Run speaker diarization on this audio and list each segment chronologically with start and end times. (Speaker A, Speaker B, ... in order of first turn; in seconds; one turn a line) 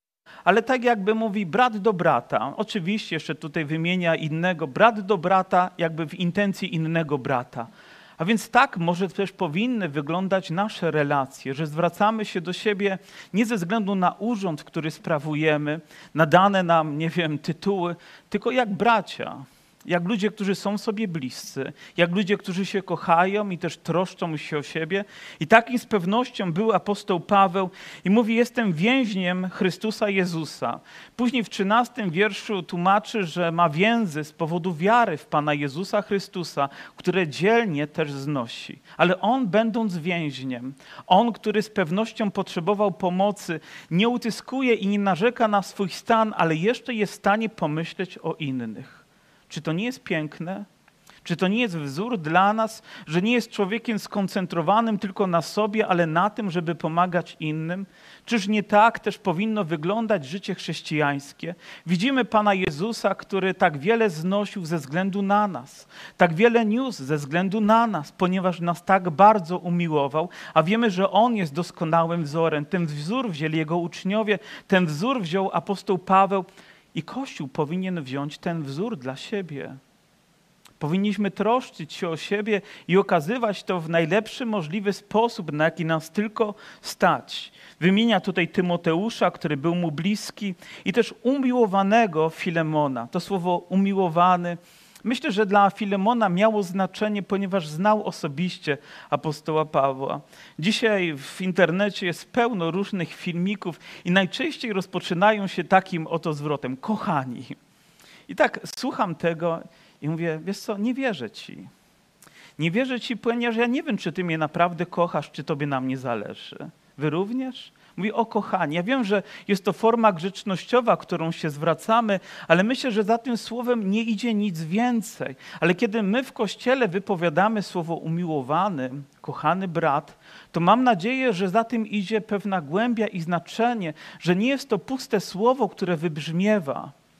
Speaker A: 0.5-50.6
Speaker A: 51.2-79.8
Speaker A: 80.8-107.6
Speaker A: 108.3-111.7
Speaker A: 112.6-136.9